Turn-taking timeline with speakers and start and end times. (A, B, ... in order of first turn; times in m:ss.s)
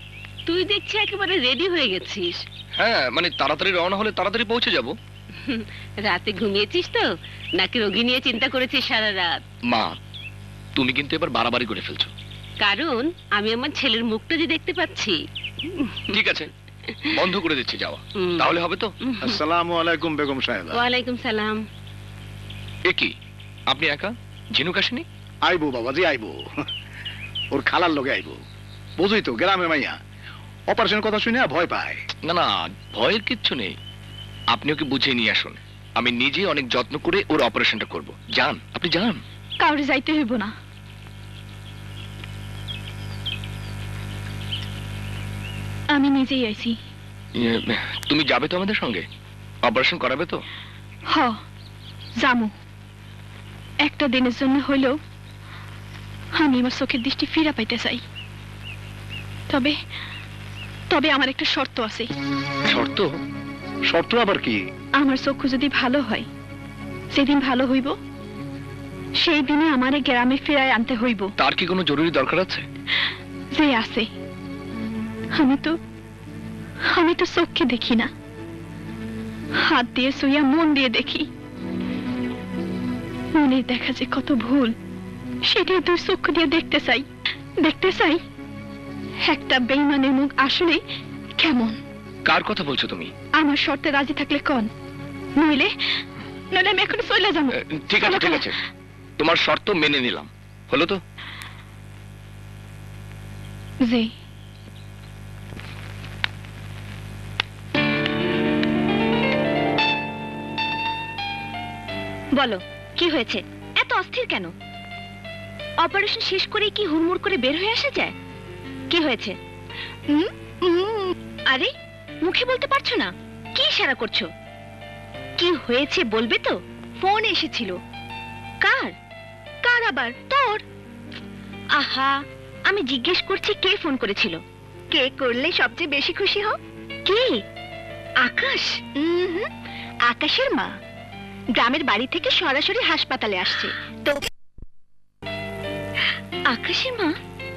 0:00.5-0:02.4 A
0:02.8-0:04.9 B
0:05.4-0:07.1 A
0:07.6-0:09.4 A
0:09.7-0:09.9 B
0:10.8-0:12.1 B
0:12.6-0:15.2 A
0:15.7-0:16.1 A
0:16.1-0:16.5 B
0:17.1-0:18.9 B
0:19.1-0:19.4 A
0:19.2-0:20.8 C
0:20.7-0:21.6 A
0:23.7-0:25.0 B
0:25.4-0:26.4 C
0:27.5-0:28.4 C
0:29.0-0:30.0 C
0:30.7-0:32.0 C
0:32.3-0:33.8 B
0:34.5-0:39.2 B
0:39.6-0:40.5 D
0:45.9-0:46.8 D
0:47.4-0:49.0 B
0:49.6-0:50.4 B
0:52.2-0:52.5 D
0:53.8-0:55.0 D
0:56.4-0:58.0 D
0:59.5-0:59.8 D
1:00.9-1:02.1 D
1:02.7-1:03.1 B
1:03.9-1:04.6 C
1:05.0-1:06.3 D
1:07.1-1:07.9 D
1:09.2-1:11.3 D
1:11.4-1:12.7 B
1:13.5-1:14.1 D
1:15.4-1:15.8 D
1:16.9-1:18.1 D
1:19.7-1:21.3 D
1:23.3-1:24.7 D
1:25.4-1:27.1 D
1:27.6-1:28.2 D
1:29.2-1:30.8 D
1:31.4-1:31.8 D
1:32.2-1:33.1 B
1:33.4-1:34.7 D
1:35.4-1:35.7 D
1:36.5-1:38.5 D
1:37.5-1:38.6 B
1:39.2-1:41.0 B
1:43.8-1:44.1 D
1:52.4-1:54.5 E
1:55.8-1:58.1 E
1:58.9-1:59.4 E
2:00.1-2:01.7 E
2:02.2-2:04.2 E
2:05.4-2:07.8 E
2:08.6-2:08.9 E
2:09.6-2:10.6 E
2:11.8-2:14.4 E
2:14.9-2:16.5 E
2:17.1-2:17.4 E
2:18.2-2:19.5 E
2:20.1-2:20.7 E
2:21.6-2:24.2 E
2:26.5-2:27.1 E